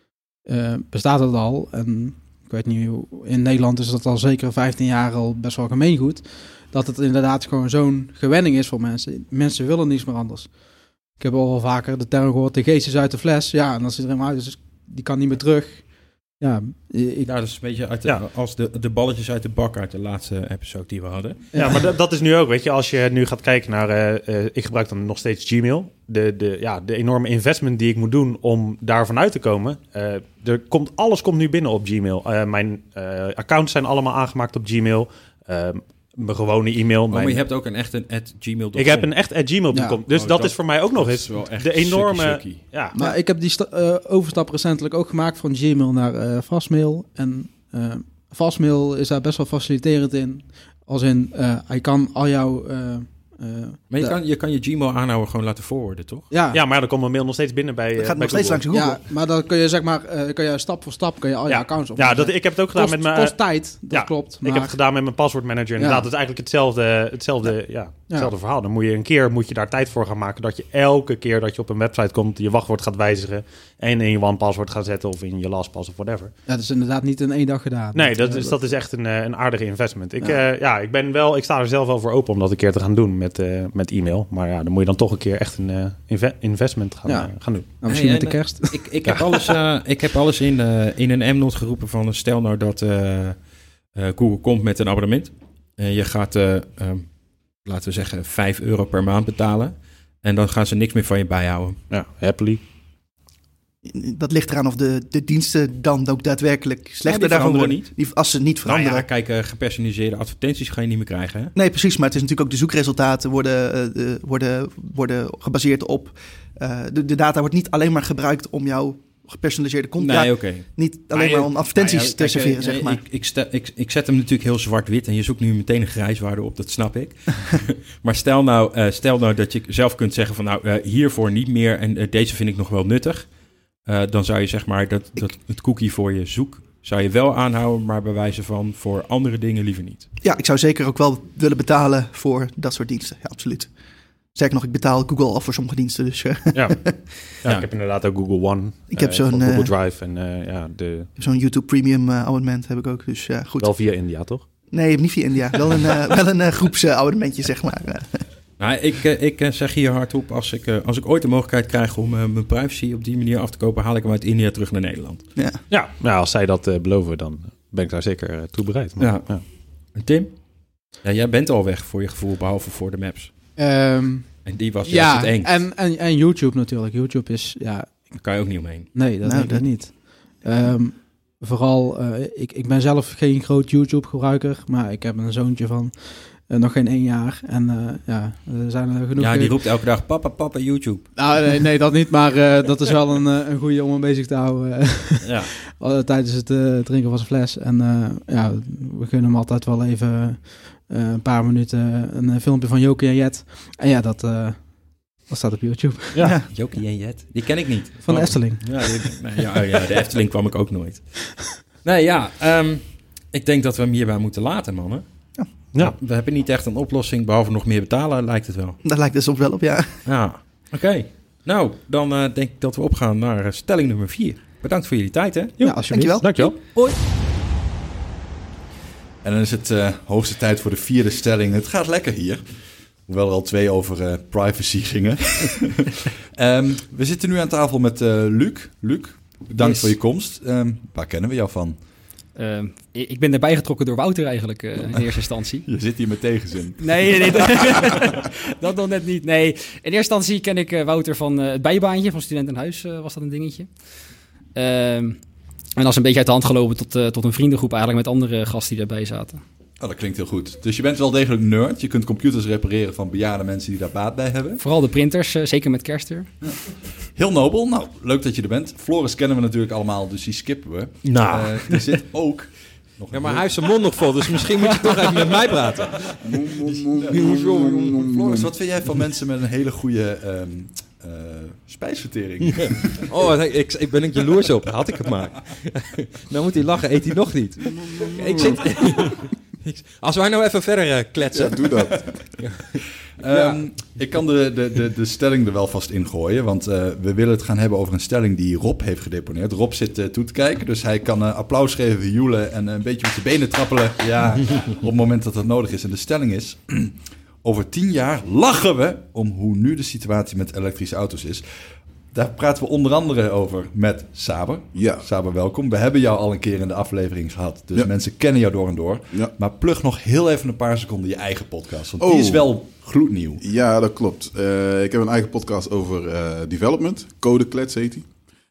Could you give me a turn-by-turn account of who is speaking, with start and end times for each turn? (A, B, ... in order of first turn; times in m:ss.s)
0:00.4-0:17.3 A
0:17.2-0:21.5 B
0:21.5-0:21.9 A
0:21.6-0:37.5 C
0:37.1-0:39.2 B
0:38.8-0:43.0 C
0:39.7-0:40.0 A
0:40.0-0:42.8 B
0:42.9-0:54.2 A
0:53.9-0:56.3 B
0:56.3-0:56.6 A
0:56.5-0:58.6 C
0:58.0-0:59.0 D
0:58.7-1:04.8 A
1:01.5-1:16.3 C
1:05.8-1:06.1 A
1:08.1-1:08.3 A
1:16.5-1:18.6 A
1:17.9-1:27.6 C
1:27.1-1:29.5 A
1:27.9-1:41.8 B
1:41.9-1:42.6 C
1:43.8-1:49.1 D
1:47.0-1:48.1 B
1:48.6-1:51.5 B
1:51.5-2:03.0 D
2:00.0-2:20.1 B
2:20.2-2:27.0 D
2:26.5-2:26.8 C
2:27.4-2:31.1 C
2:28.9-2:29.7 D
2:31.2-2:33.8 D
2:33.6-2:34.4 C
2:34.7-2:38.3 D
2:38.6-2:45.3 B
2:45.4-2:45.6 D
2:45.7-2:49.4 C
2:49.0-2:53.4 B
2:53.6-2:58.2 A
2:54.4-2:55.7 B
2:58.1-2:58.9 B
2:58.9-3:09.7 A
2:59.2-2:59.7 D
3:09.2-3:11.0 B
3:11.2-3:26.8 A
3:15.2-3:15.5 B
3:26.4-3:31.1 B
3:27.4-3:29.9 A
3:31.8-3:38.8 B
3:38.8-3:40.0 D
3:40.0-3:46.6 B
3:45.6-3:46.7 A
3:45.7-3:46.8 D
3:46.3-3:46.5 C
3:49.2-4:01.8 E
3:59.5-3:59.9 B
4:02.4-4:05.7 F
4:05.6-4:07.7 E
4:06.8-4:13.7 F
4:14.6-4:15.2 F
4:15.8-4:19.4 F
4:19.8-4:24.6 E
4:24.6-4:26.3 F
4:27.1-4:34.0 E
4:31.0-4:32.0 B
4:33.1-4:38.0 B
4:36.2-4:38.5 G
4:38.1-4:43.1 E
4:42.5-4:53.7 B
4:51.3-4:52.4 G
4:51.9-4:52.3 E
4:53.2-5:11.4 E
5:12.1-5:23.4 E
5:14.7-5:15.1 G
5:22.0-5:22.9 G
5:23.4-5:28.3 G